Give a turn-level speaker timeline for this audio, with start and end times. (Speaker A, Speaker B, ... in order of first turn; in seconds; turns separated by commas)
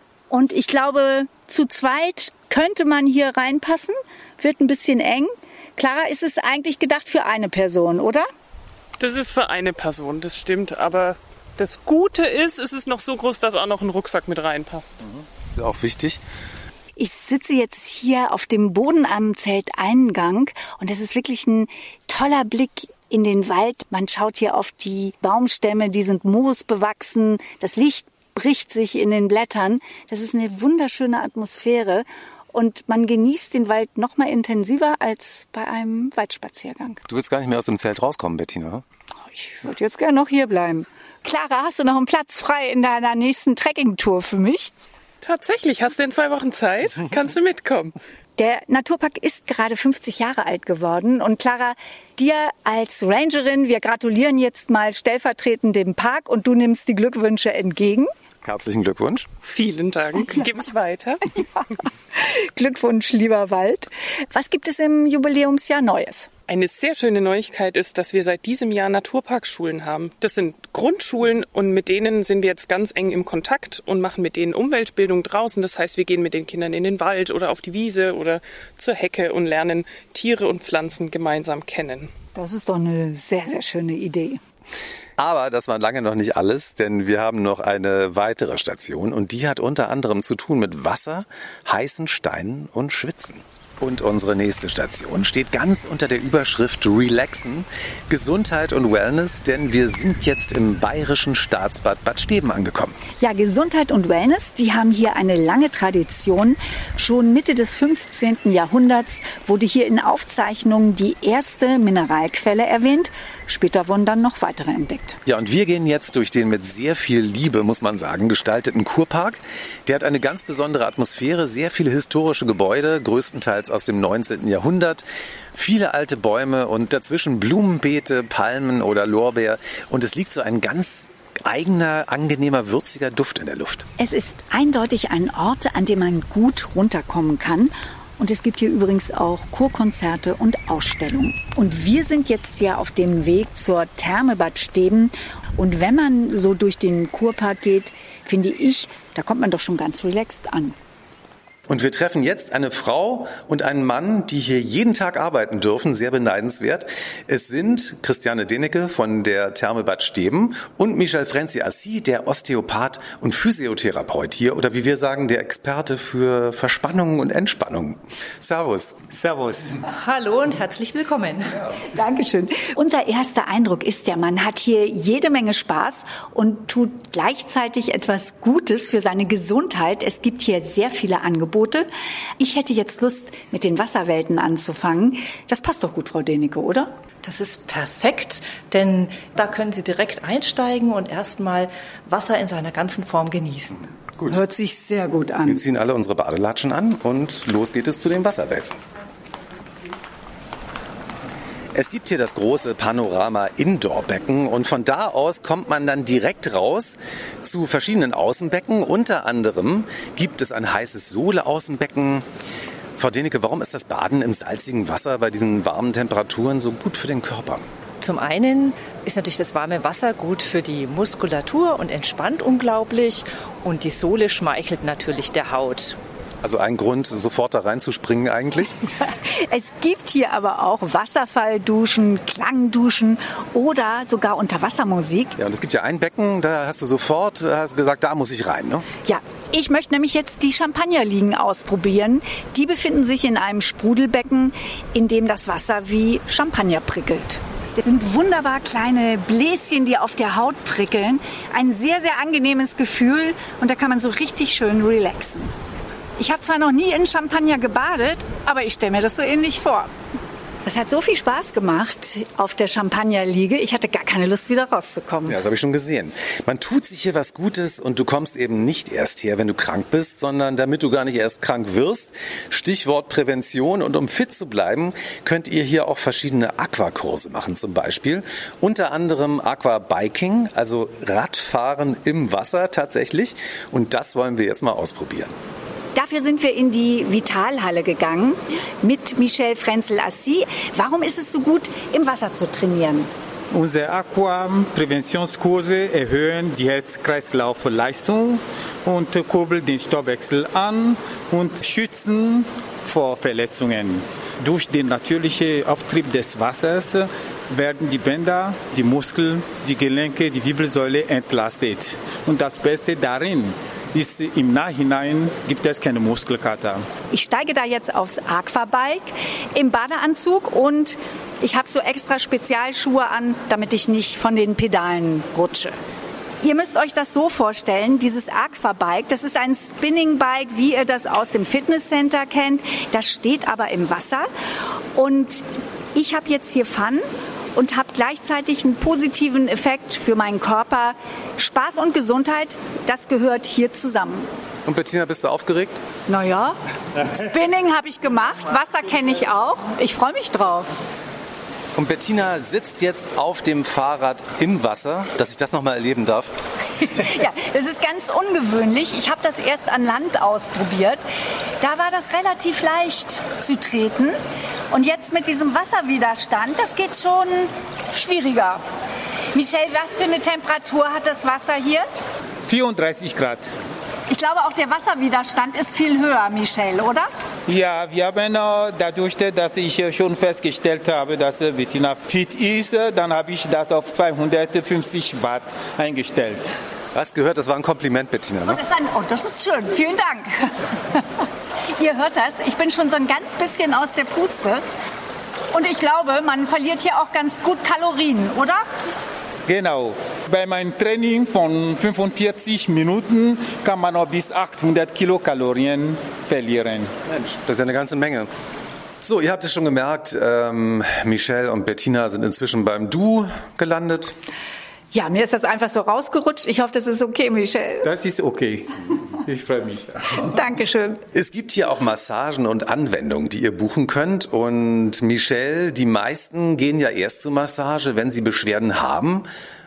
Speaker A: 0.3-8.3, Speaker B: 9.0-15.0, Speaker C: 15.0-16.2, Speaker A: 17.0-37.0, Speaker C: 37.1-38.8, Speaker A: 39.2-44.7, Speaker B: 45.2-48.0, Speaker A: 48.4-58.1, Speaker C: 58.4-59.3, Speaker B: 59.4-61.3, Speaker A: 62.1-66.3, Speaker B: 66.5-82.1, Speaker A: 82.3-84.4, Speaker C: 85.2-103.0, Speaker A: 103.2-115.2, Speaker C: 115.2-133.9, Speaker A: 134.0-150.8, Speaker C: 151.7-169.0, Speaker D: 169.1-169.8, Speaker E: 169.8-171.7, Speaker A: 171.9-181.9, Speaker A: 182.4-186.9, Speaker E: 187.2-193.9, Speaker A: 194.3-195.6, Speaker C: 195.4-198.8, Speaker C: 201.7-212.2, Speaker C: 213.0-217.7, Speaker E: 218.0-226.0, Speaker C: 226.4-228.8, Speaker A: 229.2-235.3, Speaker C: 235.4-238.9, Speaker A: 239.0-255.5, Speaker A: 256.2-259.9, Speaker A: 260.6-265.4, Speaker C: 265.2-285.3, Speaker A: 285.9-293.1, Speaker D: 293.5-316.9, Speaker A: 317.1-325.8, Speaker A: 326.4-334.3, Speaker A: 334.9-344.3, Speaker C: 344.6-345.8, Speaker A: 346.1-350.7, Speaker C: 351.8-356.3, Speaker A: 356.8-361.0, Speaker A: 361.6-364.2, Speaker A: 364.7-368.6, Speaker A: 369.3-371.9, Speaker D: 372.4-373.5, Speaker A: 374.1-377.1, Speaker D: 377.5-386.5, Speaker C: 386.9-388.6, Speaker A: 388.4-391.0, Speaker A: 391.7-394.6, Speaker A: 395.5-398.6, Speaker D: 399.4-406.9, Speaker C: 407.1-408.3, Speaker C: 409.0-414.1, Speaker A: 414.9-417.9, Speaker D: 417.8-420.4, Speaker A: 420.2-421.0, Speaker C: 421.1-429.3